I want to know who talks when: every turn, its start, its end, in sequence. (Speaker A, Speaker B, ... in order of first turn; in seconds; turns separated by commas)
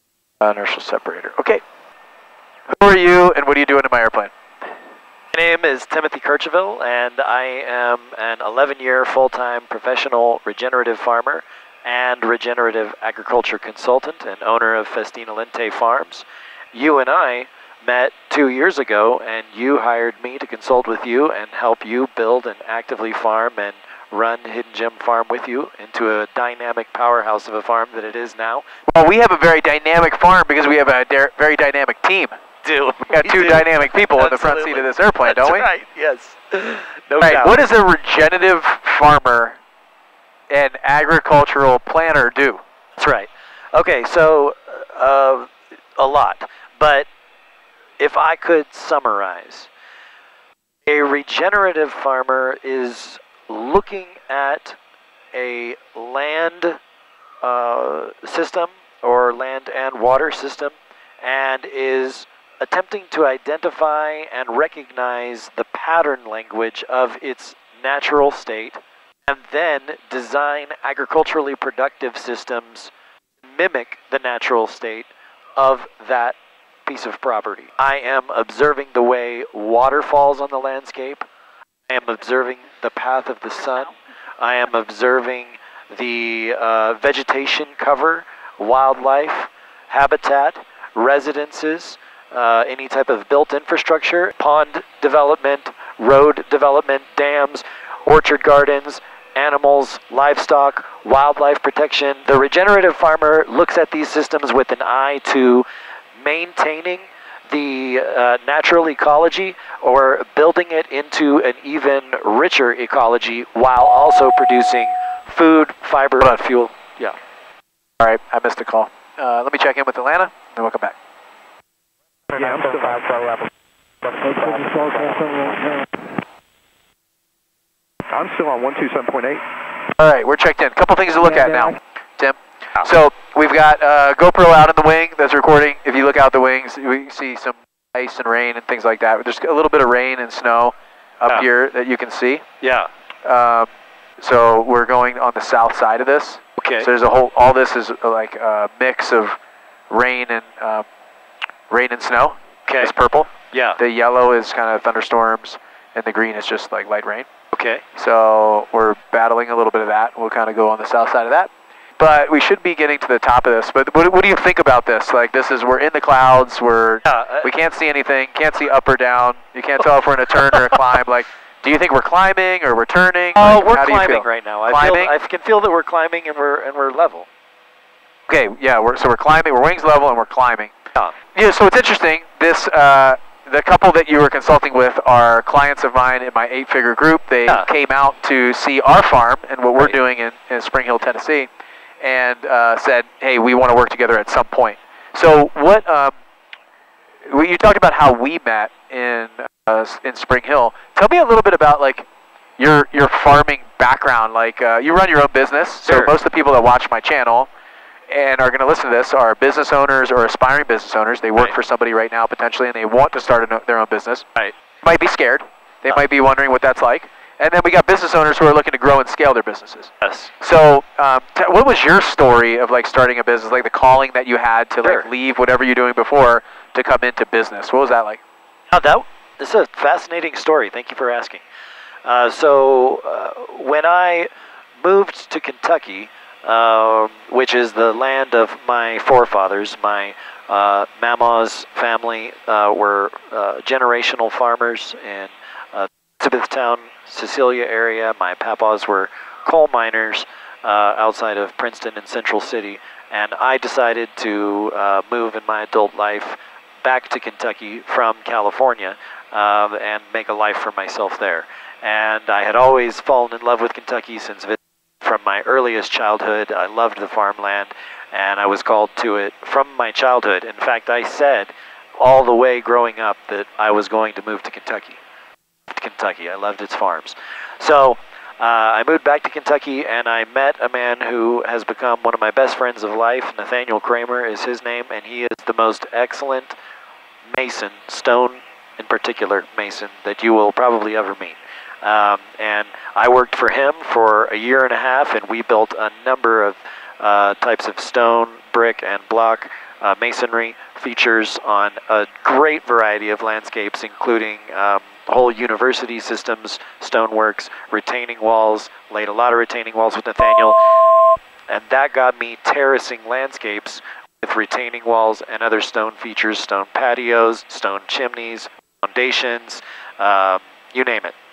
Speaker A: 0.4-1.6, Speaker A: 2.7-4.3, Speaker B: 5.3-28.7, Speaker A: 28.9-32.3, Speaker B: 32.6-37.6, Speaker A: 33.1-35.7, Speaker A: 37.2-39.6, Speaker A: 40.5-42.6, Speaker B: 43.0-47.1, Speaker B: 48.0-49.7, Speaker B: 50.9-54.8, Speaker B: 55.3-56.8, Speaker B: 57.4-81.2, Speaker B: 81.9-105.7, Speaker B: 106.2-117.1, Speaker A: 116.2-116.5, Speaker A: 118.0-121.0, Speaker C: 122.3-123.4, Speaker C: 124.1-125.9, Speaker C: 128.1-129.4, Speaker A: 130.0-142.4, Speaker B: 142.6-142.9, Speaker A: 143.2-149.4, Speaker B: 146.6-146.9, Speaker A: 149.9-150.8, Speaker A: 151.7-157.3, Speaker B: 152.7-152.9, Speaker B: 153.5-153.8, Speaker B: 157.5-157.8, Speaker A: 158.0-175.1, Speaker B: 167.1-167.5, Speaker B: 173.3-177.3, Speaker A: 178.3-180.7, Speaker A: 181.3-191.5, Speaker A: 192.0-196.2, Speaker A: 197.3-202.1, Speaker A: 202.6-207.5, Speaker B: 205.8-206.1, Speaker A: 208.1-214.3, Speaker A: 214.8-228.2, Speaker B: 220.0-220.3, Speaker B: 228.7-231.4, Speaker B: 232.1-234.3, Speaker B: 234.8-275.0, Speaker B: 275.7-286.6, Speaker B: 287.3-310.6, Speaker B: 311.5-321.1